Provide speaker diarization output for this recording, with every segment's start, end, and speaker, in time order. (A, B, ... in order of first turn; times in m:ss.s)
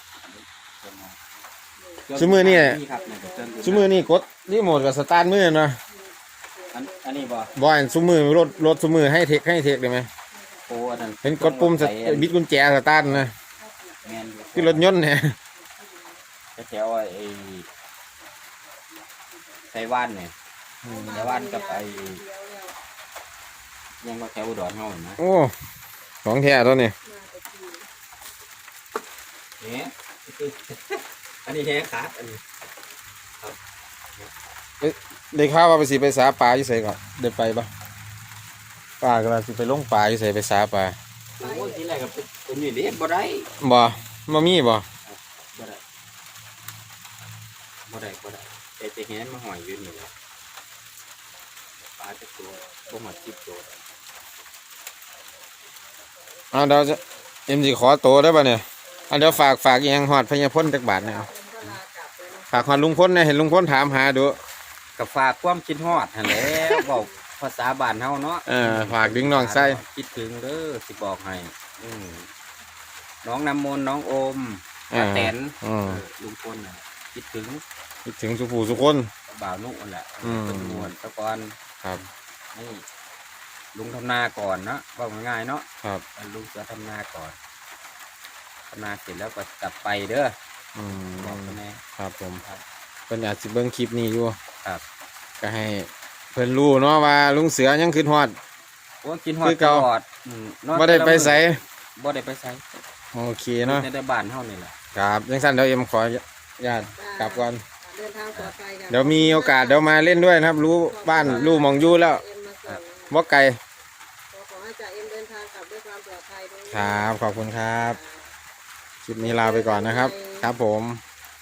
0:00.2-0:01.2 A
0:01.8-0:02.1 B
0:02.0-0:04.1 A
0:02.2-0:02.8 C
0:02.8-0:03.9 B
0:03.6-0:05.8 C
0:05.9-0:09.2 B
0:06.7-0:07.5 A
0:07.5-0:10.1 C
0:10.3-0:11.1 B
0:10.6-0:12.4 A
0:11.2-0:13.3 C
0:13.5-0:14.8 B
0:14.0-0:14.9 A
0:14.5-0:15.4 C
0:15.5-0:16.2 B
0:16.6-0:17.7 A
0:18.2-0:20.1 B
0:19.7-0:20.3 A
0:20.8-0:21.2 C
0:20.8-0:22.8 B
0:21.0-0:22.2 A
0:24.0-0:25.2 A
0:25.2-0:25.5 C
0:26.2-0:26.9 C
0:27.0-0:27.9 B
0:29.6-0:32.4 A
0:34.8-0:37.7 C
0:39.0-0:41.0 C
0:41.4-0:43.5 A
0:41.4-0:42.2 B
0:43.6-0:44.8 C
0:45.0-0:45.8 A
0:47.9-0:50.1 A
0:51.8-0:53.9 A
0:52.4-0:53.9 B
0:55.2-0:57.2 B
0:56.5-1:01.7 C
0:58.8-0:59.2 B
1:00.9-1:02.9 B
1:02.5-1:04.4 C
1:05.0-1:12.3 A
1:06.4-1:06.8 C
1:06.8-1:07.1 B
1:08.5-1:09.8 C
1:13.2-1:17.6 A
1:14.9-1:16.0 C
1:18.0-1:19.1 C
1:19.3-1:21.6 A
1:20.2-1:20.9 C
1:22.5-1:22.8 A
1:23.7-1:27.4 A
1:28.7-1:30.3 A
1:30.8-1:32.4 C
1:30.9-1:31.8 A
1:33.1-1:34.4 C
1:35.4-1:38.4 C
1:39.0-1:42.6 A
1:39.4-1:39.9 C
1:40.7-1:41.6 C
1:43.1-1:43.9 C
1:43.6-1:44.8 A
1:44.9-1:47.6 C
1:47.0-1:49.8 B
1:48.9-1:52.2 C
1:50.9-1:53.2 B
1:51.1-1:51.6 A
1:53.1-1:53.6 C
1:54.3-1:58.3 B
1:56.7-1:58.0 C
1:59.0-2:01.0 C
1:59.2-2:00.5 B